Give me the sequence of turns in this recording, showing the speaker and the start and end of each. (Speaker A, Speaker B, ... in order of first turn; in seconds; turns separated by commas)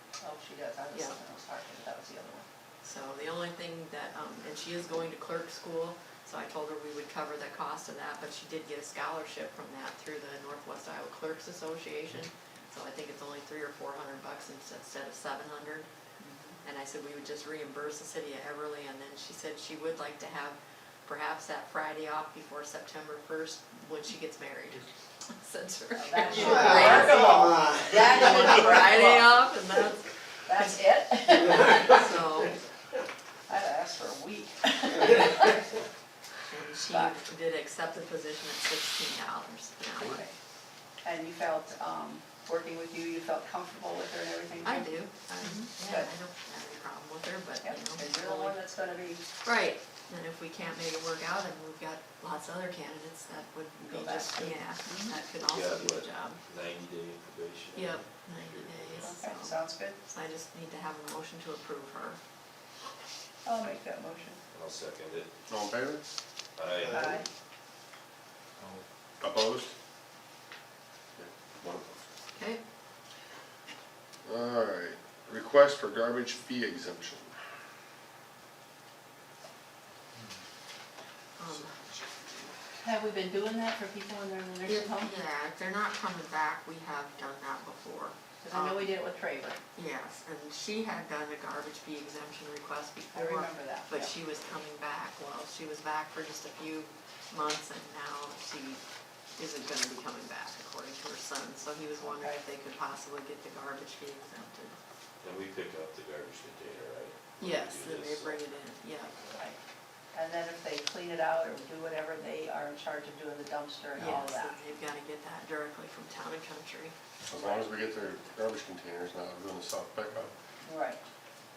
Speaker A: 0.2-2.5, Speaker B: 0.9-1.2, Speaker B: 2.8-15.9, Speaker A: 16.2-16.6, Speaker B: 16.6-32.6, Speaker A: 26.0-29.3, Speaker A: 30.5-32.1, Speaker A: 33.5-35.6, Speaker B: 36.5-40.2, Speaker A: 36.9-37.2, Speaker A: 40.0-40.3, Speaker A: 41.0-46.1, Speaker B: 44.6-48.6, Speaker A: 47.6-49.2, Speaker B: 49.4-56.4, Speaker A: 53.8-55.2, Speaker C: 55.4-59.1, Speaker B: 57.7-62.2, Speaker A: 59.0-60.0, Speaker A: 63.5-64.4, Speaker C: 64.5-65.3, Speaker D: 65.5-66.0, Speaker C: 66.6-67.2, Speaker A: 66.8-67.3, Speaker D: 69.2-69.7, Speaker D: 71.2-72.0, Speaker B: 72.3-72.6, Speaker D: 74.2-77.3, Speaker B: 81.4-81.8, Speaker A: 82.8-85.1, Speaker B: 84.7-88.9, Speaker A: 88.4-89.6, Speaker B: 89.8-98.8, Speaker A: 93.1-94.1, Speaker B: 99.4-104.8, Speaker A: 102.0-102.4, Speaker C: 105.2-108.4, Speaker B: 107.4-109.3, Speaker A: 110.1-114.6, Speaker B: 114.0-117.0, Speaker D: 117.3-120.3, Speaker A: 120.6-121.0